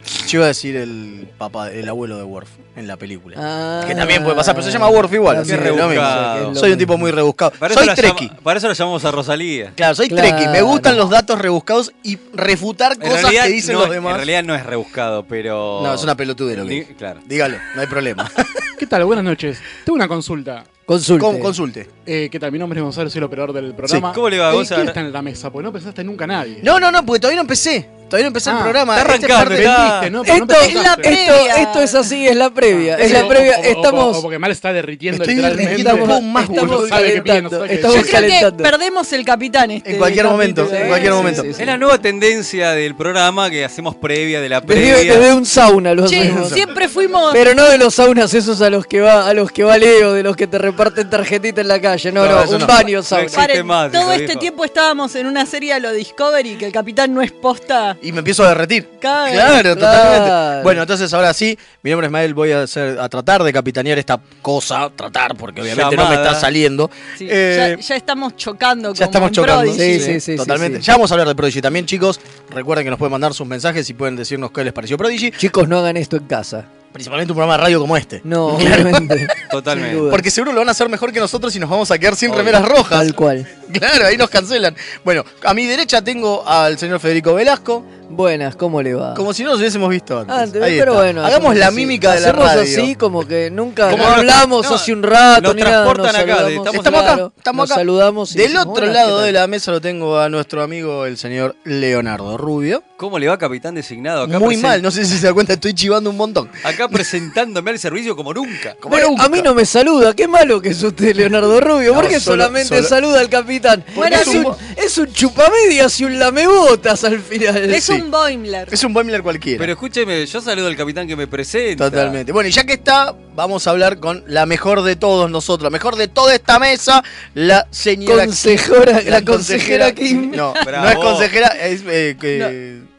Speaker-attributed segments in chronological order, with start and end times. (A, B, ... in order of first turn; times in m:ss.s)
0:00.2-0:08.3 A
0:03.4-0:07.1 B
0:05.4-0:06.6 C
0:07.6-0:09.7 C
0:09.8-0:14.3 A
0:10.1-0:11.0 B
0:13.0-0:17.2 C
0:15.8-0:18.6 A
0:18.8-0:20.7 D
0:20.9-0:21.5 B
0:21.2-0:21.9 A
0:22.0-0:26.7 D
0:24.1-0:25.0 C
0:26.6-0:30.0 A
0:28.4-0:28.8 D
0:28.9-0:30.1 C
0:29.5-0:31.2 D
0:30.2-0:34.2 B
0:30.6-0:32.1 E
0:32.7-0:38.2 D
0:35.1-0:37.2 A
0:35.4-0:38.7 B
0:37.8-0:41.6 E
0:39.8-0:41.5 A
0:40.7-0:41.7 B
0:41.6-0:45.3 C
0:44.6-0:46.6 B
0:46.0-0:47.5 E
0:46.2-0:46.7 A
0:47.3-0:53.4 B
0:52.2-0:52.8 A
0:52.3-0:54.5 C
0:53.3-0:58.0 E
0:58.0-1:07.8 A
0:59.0-0:59.6 E
0:59.6-1:00.8 B
1:05.6-1:06.5 C
1:07.2-1:10.2 E
1:08.9-1:15.4 A
1:09.7-1:10.8 B
1:15.4-1:16.7 B
1:16.9-1:19.3 A
1:18.2-1:20.2 B
1:19.4-1:20.1 C
1:20.0-1:27.9 A
1:22.3-1:22.6 C
1:22.9-1:23.5 B
1:28.1-1:29.2 B
1:29.1-1:32.9 A
1:30.3-1:39.4 B
1:33.8-1:37.2 C
1:33.9-1:34.2 A
1:36.7-1:42.8 A
1:43.0-1:44.8 C
1:44.2-1:47.0 A
1:46.6-1:48.8 C
1:48.7-1:49.5 A
1:48.9-1:57.8 B
1:51.9-1:52.9 A
1:53.9-1:54.5 E
1:53.9-1:54.6 A
1:57.7-1:58.8 E
1:58.7-1:59.7 A
1:59.6-2:02.2 C
2:01.8-2:12.9 A
2:08.0-2:10.4 B
2:10.6-2:11.3 C